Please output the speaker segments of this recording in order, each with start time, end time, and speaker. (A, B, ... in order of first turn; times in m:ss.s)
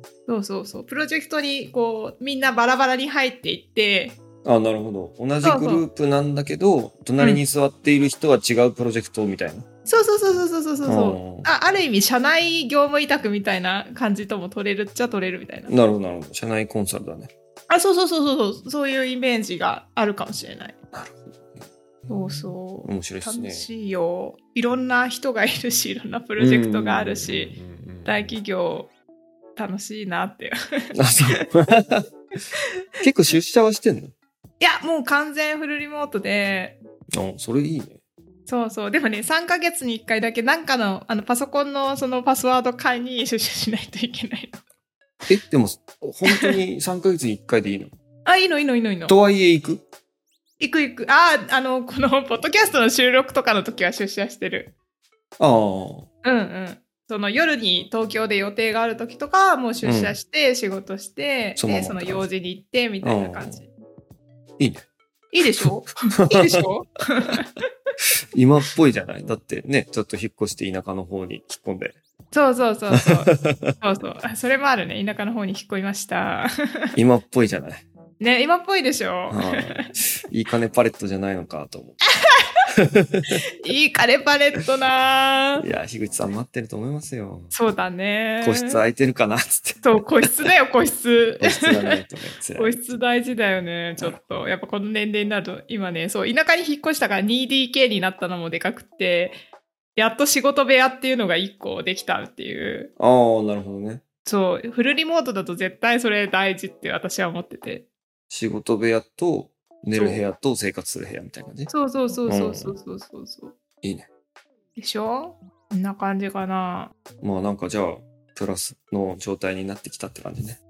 0:00.3-0:04.2 A
0:04.4-0:09.6 B
0:05.4-0:05.8 A
0:09.9-0:15.7 A
0:10.8-0:11.5 B
0:15.7-0:17.3 B
0:17.7-0:20.7 A
0:20.9-0:21.6 B
0:22.1-0:27.5 A
0:22.8-0:23.7 B
0:26.4-0:28.3 B
0:28.0-0:28.9 A
0:29.6-0:30.5 A
0:30.9-0:32.0 B
0:33.0-0:34.1 B
0:34.6-0:36.8 A
0:37.2-0:38.0 B
0:38.4-0:44.6 A
0:45.3-0:47.9 B
0:48.2-0:49.1 A
0:49.1-0:49.8 B
0:50.6-0:54.7 A
0:55.4-0:56.1 B
0:56.2-1:03.7 A
0:59.8-1:00.2 B
1:01.6-1:02.3 B
1:03.0-1:03.6 B
1:04.6-1:04.8 B
1:05.3-1:07.5 A
1:05.6-1:06.6 B
1:08.3-1:12.0 B
1:12.3-1:16.8 A
1:12.9-1:13.8 B
1:16.9-1:17.8 B
1:18.2-1:19.9 A
1:19.3-1:22.1 B
1:22.9-1:23.3 B
1:23.6-1:25.6 A
1:25.6-1:27.5 B
1:27.5-1:28.8 A
1:28.4-1:30.3 B
1:29.8-1:32.0 A
1:31.4-1:32.8 B
1:32.5-1:39.4 A
1:40.0-1:42.9 A
1:43.0-1:44.0 B
1:44.2-1:47.9 A
1:48.3-1:51.7 B
1:49.9-1:50.2 A
1:51.7-1:53.5 A
1:52.3-1:52.7 B
1:53.8-1:54.1 B
1:54.8-1:56.9 A
1:57.2-2:00.6 B